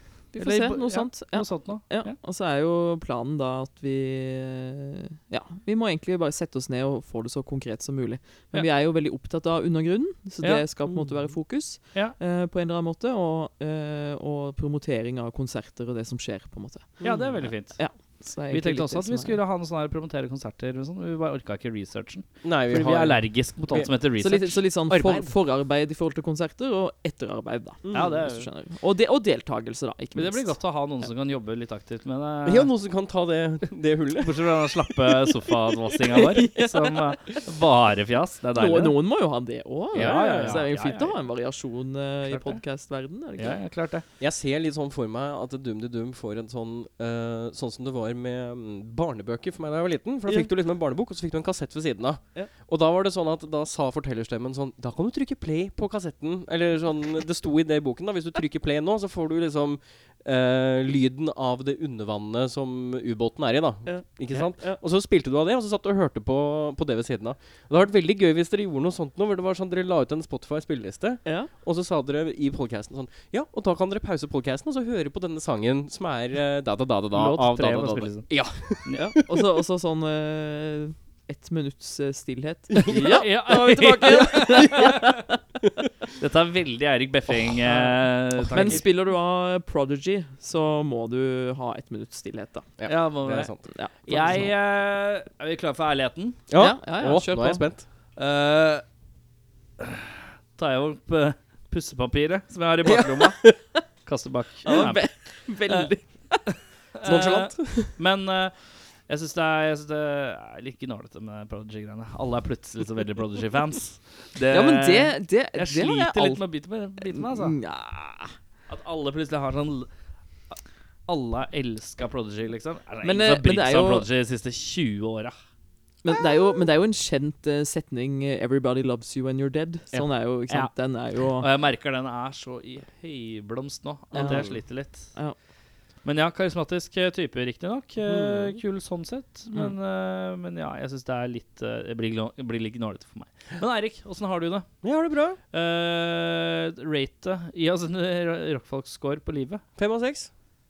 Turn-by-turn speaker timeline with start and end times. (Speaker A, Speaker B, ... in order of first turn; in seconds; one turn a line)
Speaker A: 0.3-19.4
Speaker B: 0.4-2.1
Speaker B: 10.4-10.7
Speaker C: 17.0-17.4
Speaker B: 17.0-17.8
Speaker B: 18.5-24.6
Speaker C: 22.4-23.9
Speaker A: 24.2-30.6
Speaker C: 24.9-25.3
Speaker C: 27.9-28.2
Speaker B: 27.9-28.5
Speaker B: 30.1-32.7
Speaker C: 32.5-34.3
Speaker B: 34.2-39.0
Speaker A: 36.1-37.2
Speaker A: 38.6-43.6
Speaker C: 39.9-40.6
Speaker B: 39.9-41.2
Speaker B: 42.3-42.6
Speaker B: 43.4-44.0
Speaker C: 44.2-79.0
Speaker A: 63.9-64.8
Speaker A: 71.2-71.5
Speaker B: 77.1-79.0
Speaker A: 79.0-85.2
Speaker B: 82.8-85.2
Speaker B: 86.2-88.9
Speaker A: 87.7-92.7
Speaker C: 92.8-93.6
Speaker B: 92.9-96.4
Speaker A: 93.7-94.5
Speaker C: 96.5-97.8
Speaker A: 96.6-97.6
Speaker B: 98.2-98.8
Speaker B: 99.8-105.9
Speaker A: 104.7-106.5
Speaker B: 106.5-108.6
Speaker C: 107.0-108.0
Speaker B: 109.1-117.5
Speaker A: 114.5-116.4
Speaker A: 117.0-118.4
Speaker B: 118.7-119.9
Speaker B: 120.5-125.4
Speaker A: 123.0-124.1
Speaker A: 126.0-131.5
Speaker B: 131.4-135.1
Speaker C: 134.1-134.6
Speaker A: 134.1-135.4
Speaker B: 136.0-144.7
Speaker C: 138.1-138.6
Speaker C: 144.8-145.4
Speaker B: 145.5-149.6
Speaker C: 149.8-150.3